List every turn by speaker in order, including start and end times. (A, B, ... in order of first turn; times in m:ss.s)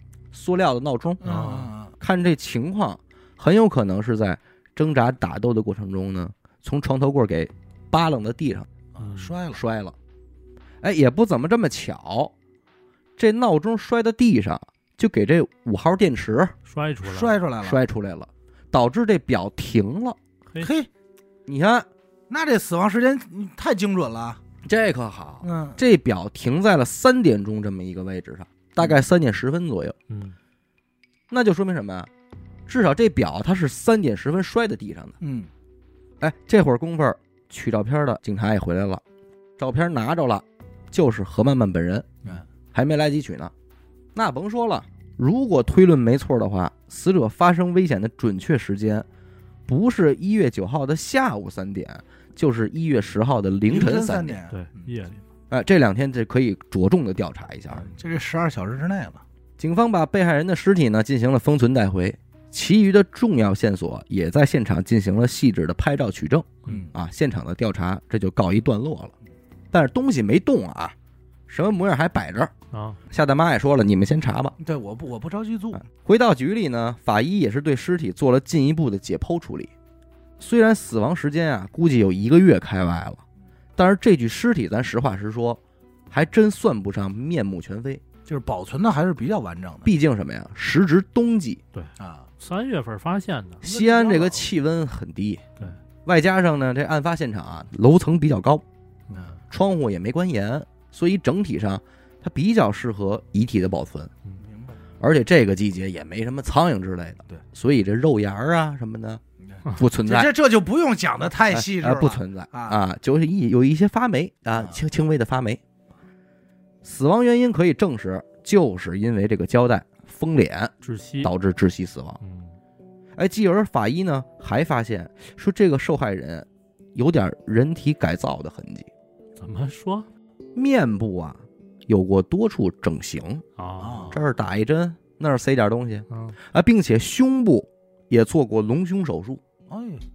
0:00.3-0:08.7 A
0:01.2-0:01.9 B
0:01.2-0:01.7 C
0:08.9-0:09.6 B
0:09.0-0:09.4 C
0:09.5-0:09.9 A
0:10.8-0:12.3 A
0:13.2-0:16.5 A
0:16.6-0:17.4 C
0:17.0-0:17.8 B
0:17.6-0:20.2 A
0:20.5-0:20.7 C
0:20.6-0:20.9 B
0:21.5-0:21.9 A
0:22.3-0:24.4 B
0:24.6-0:30.0 A
0:25.4-0:25.8 B
0:30.1-0:30.4 C
0:31.3-0:32.1 A
0:32.7-0:35.2 A
0:35.2-0:35.5 B
0:36.2-0:39.0 A
0:39.6-0:42.1 A
0:42.7-0:43.5 A
0:44.1-0:49.0 A
0:49.7-0:54.4 A
0:53.7-0:54.9 B
0:54.5-0:55.2 C
0:55.5-0:57.9 A
0:57.7-0:59.2 B
0:59.6-1:09.1 A
1:06.7-1:07.0 B
1:09.7-1:10.9 A
1:11.5-1:12.5 A
1:12.7-1:13.0 C
1:13.1-1:14.5 A
1:14.6-1:15.8 B
1:15.8-1:19.7 A
1:20.4-1:23.2 A
1:23.8-1:28.0 A
1:28.2-1:29.9 B
1:29.8-1:31.6 A
1:31.7-1:33.6 C
1:32.0-1:32.3 B
1:33.6-1:34.5 B
1:33.6-1:35.4 A
1:36.0-1:38.6 A
1:39.1-1:39.4 B
1:39.5-1:44.1 A
1:44.4-1:44.8 B
1:45.0-1:50.3 A
1:49.4-1:52.8 B
1:51.5-1:55.6 A
1:56.8-2:02.2 A
2:00.8-2:01.3 C
2:02.2-2:02.6 C
2:03.2-2:08.9 A
2:09.4-2:10.1 C
2:10.6-2:13.4 A
2:13.6-2:14.1 C
2:13.8-2:14.2 B
2:14.1-2:19.4 A
2:16.1-2:16.4 C
2:19.7-2:20.1 B